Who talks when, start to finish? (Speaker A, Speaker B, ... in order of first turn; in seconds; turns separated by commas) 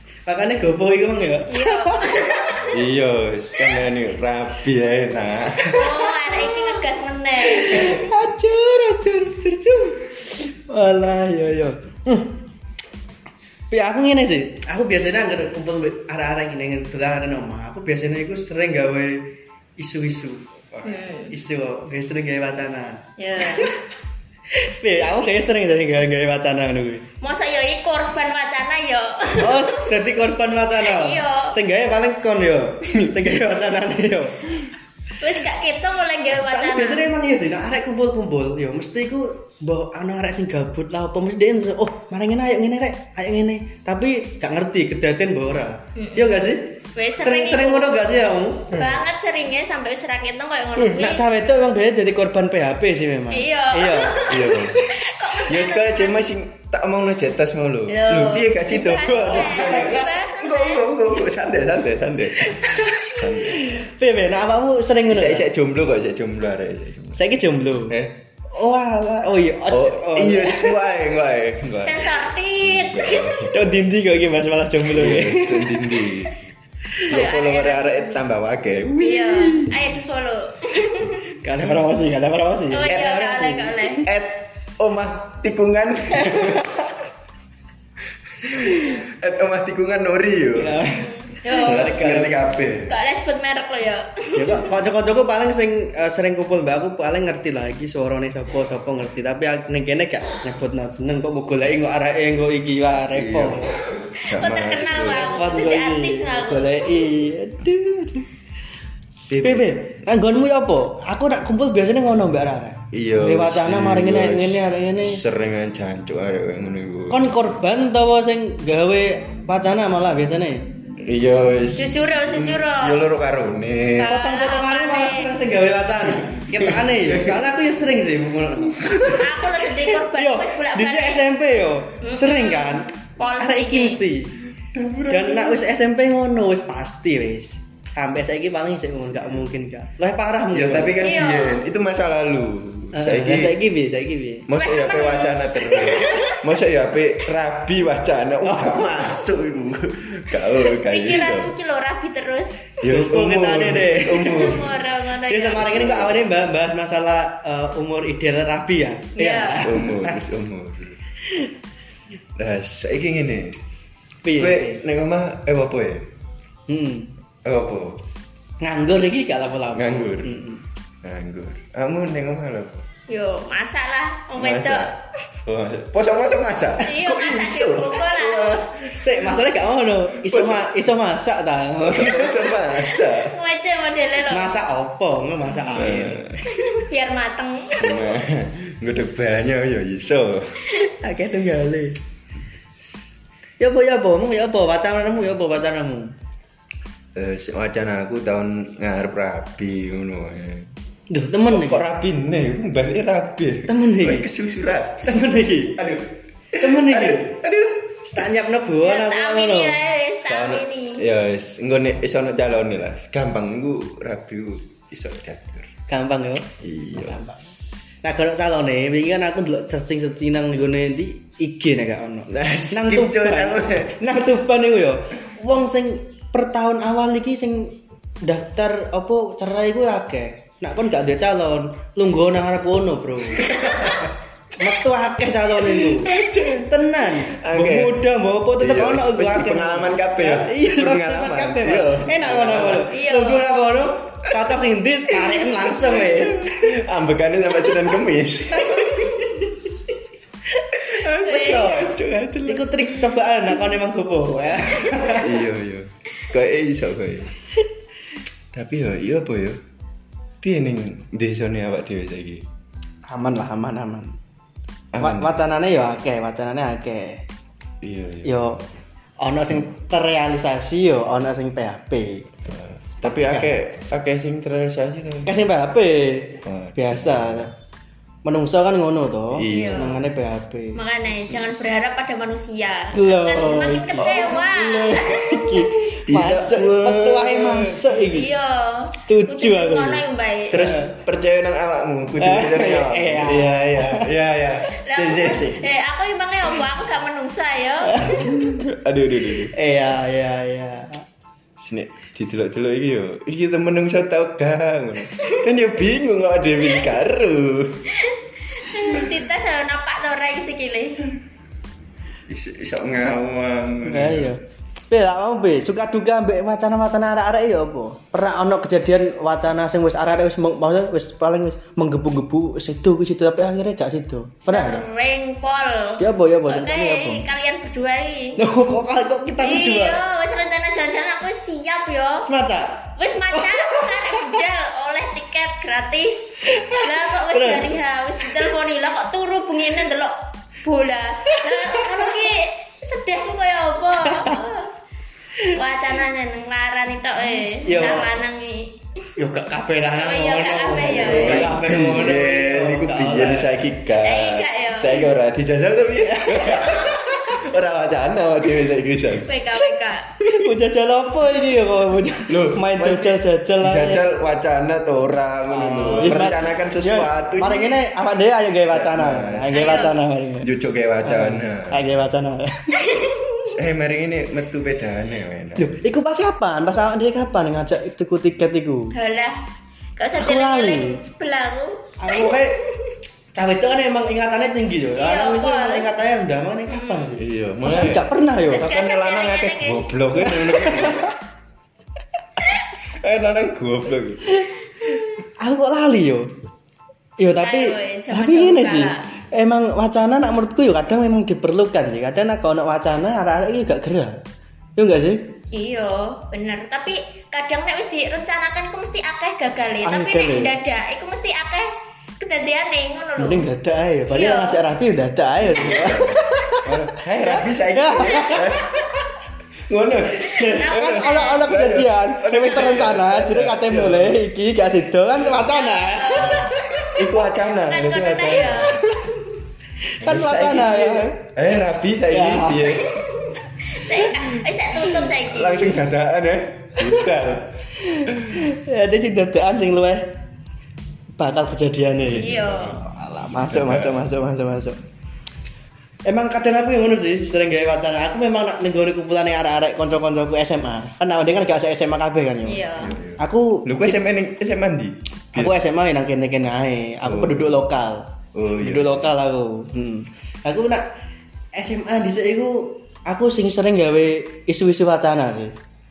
Speaker A: 0.2-2.2, Speaker B: 1.5-2.8, Speaker C: 2.7-6.0, Speaker B: 5.7-8.0, Speaker A: 5.8-6.6, Speaker A: 7.5-12.4, Speaker A: 13.7-23.7, Speaker B: 20.8-21.3, Speaker B: 23.2-23.7, Speaker A: 24.7-27.0, Speaker B: 25.0-25.4, Speaker B: 27.2-29.9, Speaker A: 29.4-34.7, Speaker B: 30.8-31.5, Speaker B: 35.2-37.1, Speaker A: 36.4-48.9, Speaker B: 46.0-48.0, Speaker B: 48.7-51.2, Speaker A: 50.9-54.8, Speaker B: 53.3-56.2, Speaker C: 54.2-54.8, Speaker C: 55.5-63.6, Speaker B: 57.9-60.9, Speaker A: 59.5-59.8, Speaker A: 62.4-65.5, Speaker C: 65.1-67.2, Speaker A: 67.1-68.0, Speaker C: 67.9-68.1, Speaker A: 68.5-70.8, Speaker C: 69.7-73.5, Speaker B: 71.8-73.4, Speaker A: 73.4-75.8, Speaker C: 74.8-76.4, Speaker C: 77.1-79.8, Speaker B: 77.1-78.2, Speaker B: 79.0-81.2, Speaker A: 81.4-84.0, Speaker B: 82.7-84.1, Speaker C: 82.9-86.8, Speaker A: 86.2-86.8, Speaker C: 88.4-90.8, Speaker A: 90.5-92.4, Speaker B: 91.4-91.9, Speaker C: 91.5-92.9, Speaker B: 92.9-94.7, Speaker A: 94.3-103.7, Speaker C: 103.1-105.4, Speaker B: 104.2-106.9, Speaker A: 105.0-108.3, Speaker C: 109.3-109.8, Speaker A: 109.4-115.2, Speaker C: 112.9-117.3, Speaker A: 117.1-120.7, Speaker C: 121.0-124.1, Speaker B: 121.8-123.0, Speaker B: 124.0-125.3, Speaker A: 124.1-129.2, Speaker C: 126.4-127.4, Speaker C: 128.8-129.2, Speaker B: 129.0-131.2, Speaker A: 130.1-134.3, Speaker B: 132.0-134.0, Speaker C: 134.7-135.6, Speaker A: 135.1-141.0, Speaker C: 140.5-143.6, Speaker B: 141.0-141.7, Speaker A: 142.9-144.5, Speaker C: 144.5-151.5, Speaker B: 144.5-146.4, Speaker A: 148.4-149.0, Speaker B: 150.6-152.6, Speaker C: 152.8-154.8, Speaker A: 152.8-154.6, Speaker B: 154.2-156.2, Speaker A: 155.3-160.2, Speaker B: 159.2-159.7, Speaker C: 159.5-161.0, Speaker C: 162.3-163.6, Speaker A: 164.2-164.8, Speaker C: 164.3-166.1, Speaker A: 166.7-167.1, Speaker C: 167.4-168.0, Speaker A: 168.6-170.6, Speaker C: 169.7-170.4, Speaker C: 171.0-172.8, Speaker B: 173.1-174.9, Speaker C: 174.3-178.8, Speaker B: 176.8-178.6, Speaker A: 178.8-182.6, Speaker C: 180.2-180.7, Speaker C: 181.8-183.4, Speaker B: 182.8-184.5, Speaker A: 184.3-186.4, Speaker C: 185.7-186.4, Speaker B: 186.5-188.1, Speaker C: 187.7-190.6, Speaker A: 190.7-192.0, Speaker A: 193.6-196.1, Speaker C: 197.1-200.7, Speaker A: 201.1-201.8, Speaker C: 201.5-205.1, Speaker A: 203.7-204.3, Speaker A: 205.0-205.8, Speaker C: 205.8-207.9, Speaker A: 206.5-207.3, Speaker A: 208.1-209.8, Speaker B: 208.8-211.0, Speaker C: 210.2-215.7, Speaker A: 215.9-216.5, Speaker C: 216.6-217.2, Speaker A: 217.0-234.0, Speaker C: 222.3-224.0, Speaker C: 233.4-234.1, Speaker A: 234.6-246.8, Speaker C: 235.6-236.6, Speaker C: 237.2-238.0, Speaker C: 238.6-242.9, Speaker B: 242.9-243.5, Speaker C: 245.2-249.3, Speaker A: 248.6-249.1, Speaker C: 250.8-253.0, Speaker B: 251.2-251.9, Speaker A: 251.5-251.8, Speaker A: 252.4-255.4, Speaker C: 255.0-257.3, Speaker C: 258.5-259.6, Speaker C: 260.4-262.4, Speaker A: 263.1-264.2, Speaker C: 264.9-265.4, Speaker A: 265.0-267.2, Speaker C: 267.8-268.5, Speaker A: 268.2-268.6, Speaker A: 269.2-272.3, Speaker C: 272.5-275.4, Speaker A: 273.0-273.6, Speaker A: 275.2-277.5, Speaker C: 276.4-277.5, Speaker A: 278.2-280.8, Speaker C: 279.3-280.0, Speaker B: 279.5-280.0, Speaker B: 280.8-285.7, Speaker A: 282.9-288.3, Speaker C: 283.5-284.4, Speaker C: 286.1-287.9, Speaker B: 288.1-290.7, Speaker A: 289.0-290.0, Speaker C: 290.5-295.7, Speaker A: 290.6-290.9, Speaker A: 292.2-294.1, Speaker B: 294.8-298.2, Speaker A: 297.9-298.6, Speaker C: 298.2-299.5, Speaker A: 299.5-301.0, Speaker C: 301.6-307.8, Speaker B: 308.0-311.1, Speaker C: 312.3-314.3, Speaker A: 313.8-324.9, Speaker B: 324.4-328.4, Speaker A: 326.0-327.2, Speaker A: 328.4-330.0, Speaker B: 329.4-332.3, Speaker A: 332.2-334.2, Speaker B: 333.0-344.7, Speaker A: 336.4-337.7, Speaker B: 345.4-348.7, Speaker A: 347.6-348.1, Speaker A: 349.2-353.6, Speaker B: 349.9-351.6, Speaker C: 351.0-359.3, Speaker B: 354.0-355.1, Speaker B: 356.5-357.0, Speaker B: 359.2-360.0, Speaker A: 360.2-364.0, Speaker C: 362.3-367.8, Speaker A: 365.5-370.5, Speaker C: 368.7-369.9, Speaker B: 369.5-369.9, Speaker C: 370.4-371.8, Speaker A: 371.0-372.8, Speaker B: 372.8-373.4, Speaker C: 373.5-375.8, Speaker A: 375.6-378.9, Speaker B: 378.9-379.4, Speaker B: 380.0-382.5, Speaker A: 380.2-381.0, Speaker A: 382.0-382.6, Speaker A: 383.3-388.7, Speaker B: 384.9-385.9, Speaker B: 386.7-387.1, Speaker C: 387.2-388.0, Speaker B: 388.5-390.7, Speaker C: 388.6-391.1, Speaker A: 390.1-391.0, Speaker C: 392.9-394.4, Speaker A: 395.4-396.3, Speaker A: 397.2-404.2, Speaker B: 397.3-399.0, Speaker A: 404.8-405.2, Speaker B: 405.5-411.7, Speaker A: 409.8-410.6, Speaker B: 412.2-413.4, Speaker A: 413.2-416.6, Speaker B: 414.1-414.6, Speaker C: 415.5-418.8, Speaker A: 417.2-418.8, Speaker C: 419.7-424.2, Speaker A: 420.3-426.9, Speaker B: 420.4-421.5, Speaker C: 425.1-425.5, Speaker B: 425.4-426.6, Speaker C: 426.2-428.8, Speaker B: 427.5-428.8, Speaker A: 428.7-429.1, Speaker A: 430.0-431.1, Speaker C: 430.0-433.0, Speaker A: 432.1-432.8, Speaker B: 432.8-435.9, Speaker C: 435.2-437.6, Speaker A: 436.8-437.1, Speaker A: 437.8-440.0, Speaker C: 438.1-438.3, Speaker A: 441.2-444.8, Speaker C: 442.0-444.0, Speaker B: 442.2-442.8, Speaker A: 446.1-452.6, Speaker B: 452.4-453.0, Speaker C: 452.8-455.6, Speaker A: 453.2-454.0, Speaker A: 455.3-458.1, Speaker C: 457.0-457.6, Speaker C: 458.3-459.0, Speaker A: 458.6-460.8, Speaker A: 461.6-465.5